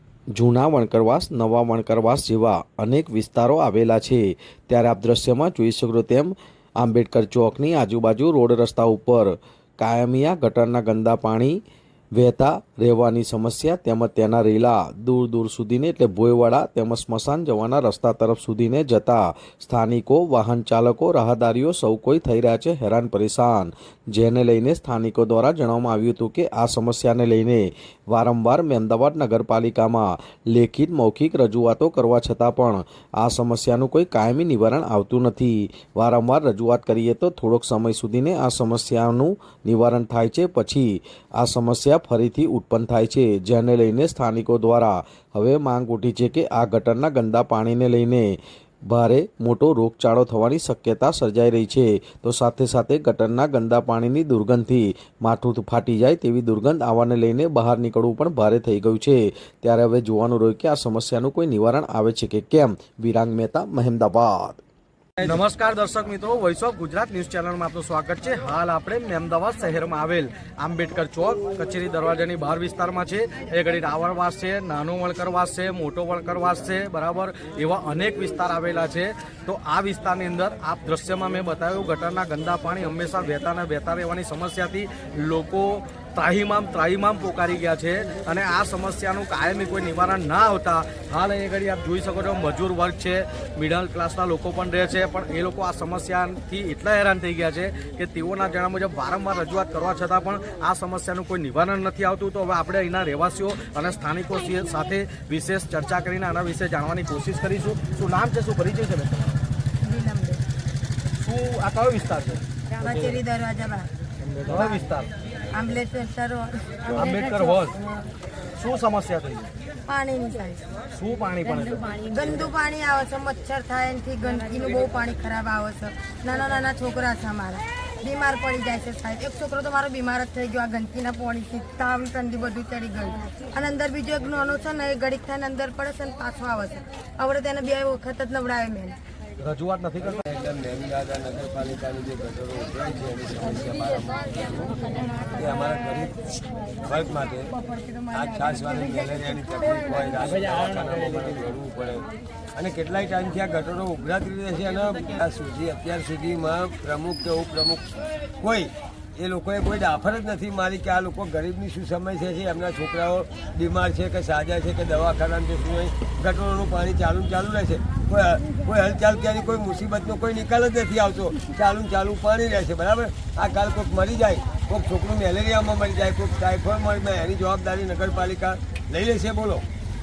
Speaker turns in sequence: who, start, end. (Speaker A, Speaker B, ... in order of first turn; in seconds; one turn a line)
Speaker A: 0.3-11.6
Speaker A: 12.1-64.6
Speaker B: 65.2-109.4
Speaker C: 109.8-110.4
Speaker B: 111.2-112.9
Speaker C: 112.8-113.9
Speaker B: 114.4-115.1
Speaker C: 114.5-114.7
Speaker C: 115.5-117.2
Speaker B: 116.9-117.8
Speaker B: 118.5-119.5
Speaker C: 119.8-120.6
Speaker B: 120.9-122.4
Speaker C: 122.0-139.0
Speaker B: 139.4-140.2
Speaker D: 140.2-147.5
Speaker C: 147.5-148.7
Speaker D: 148.1-179.6